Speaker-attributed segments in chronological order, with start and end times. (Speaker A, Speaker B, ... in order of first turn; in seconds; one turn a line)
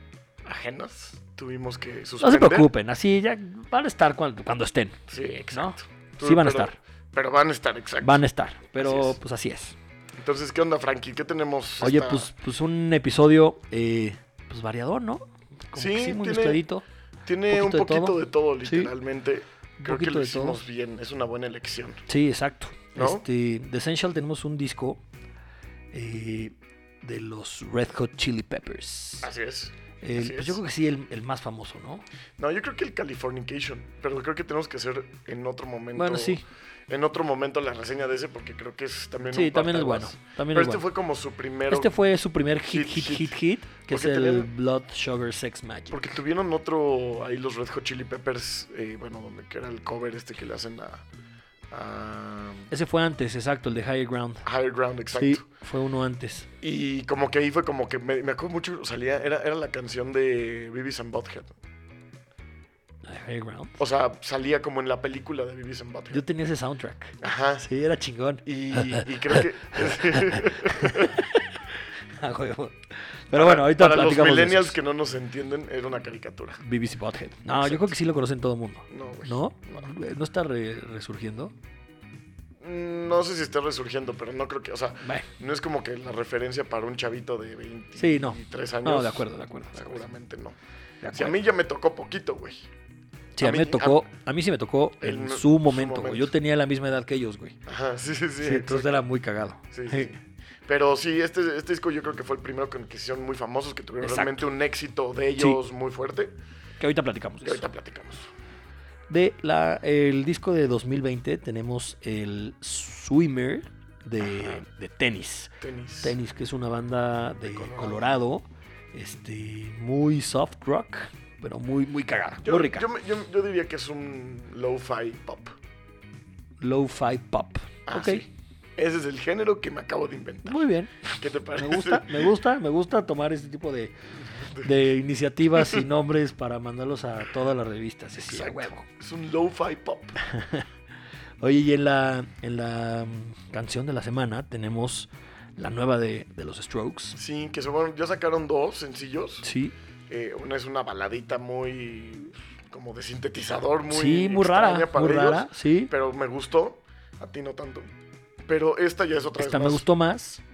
Speaker A: 0.5-2.7
Speaker B: 2.2-5.0
Speaker A: 5.1-8.2
Speaker B: 5.5-6.8
Speaker B: 8.0-9.8
Speaker A: 8.8-9.2
Speaker A: 10.2-12.3
Speaker B: 11.8-16.8
Speaker A: 15.8-16.6
Speaker A: 17.3-22.1
Speaker B: 17.5-18.9
Speaker B: 19.8-20.6
Speaker B: 22.1-25.0
Speaker A: 22.9-23.3
Speaker B: 25.9-29.3
Speaker A: 29.2-30.6
Speaker B: 30.0-32.0
Speaker A: 32.4-41.9
Speaker B: 35.9-36.4
Speaker B: 39.3-40.8
Speaker B: 41.7-46.1
Speaker A: 42.7-43.4
Speaker A: 43.9-44.5
Speaker A: 45.9-51.0
Speaker A: 51.7-52.7
Speaker B: 52.7-54.5
Speaker A: 54.4-55.4
Speaker B: 55.1-56.5
Speaker A: 56.6-61.5
Speaker B: 63.0-63.8
Speaker A: 63.8-66.2
Speaker B: 66.1-74.8
Speaker A: 67.2-67.7
Speaker A: 68.4-71.2
Speaker A: 73.3-76.6
Speaker B: 76.6-81.5
Speaker A: 77.5-77.9
Speaker A: 78.9-79.9
Speaker A: 82.6-90.6
Speaker B: 85.0-85.3
Speaker B: 88.0-90.0
Speaker B: 91.0-91.4
Speaker A: 91.1-92.7
Speaker B: 93.3-97.6
Speaker A: 93.4-94.0
Speaker A: 95.0-96.3
Speaker A: 97.7-99.0
Speaker B: 98.4-100.2
Speaker A: 99.7-100.1
Speaker A: 100.7-106.3
Speaker B: 104.0-104.5
Speaker B: 106.8-107.6
Speaker A: 107.4-108.3
Speaker B: 109.1-115.5
Speaker A: 114.2-114.6
Speaker A: 115.6-116.2
Speaker B: 116.0-122.9
Speaker A: 117.5-118.0
Speaker A: 122.4-125.6
Speaker B: 126.6-128.2
Speaker A: 127.9-132.3
Speaker B: 130.5-133.9
Speaker A: 134.3-134.7
Speaker B: 134.5-138.9
Speaker A: 135.6-135.8
Speaker A: 138.3-140.2
Speaker B: 140.2-140.7
Speaker B: 141.4-147.2
Speaker A: 147.2-149.5
Speaker B: 149.4-149.7
Speaker A: 150.1-157.9
Speaker B: 153.9-155.9
Speaker A: 158.4-159.8
Speaker B: 159.4-160.4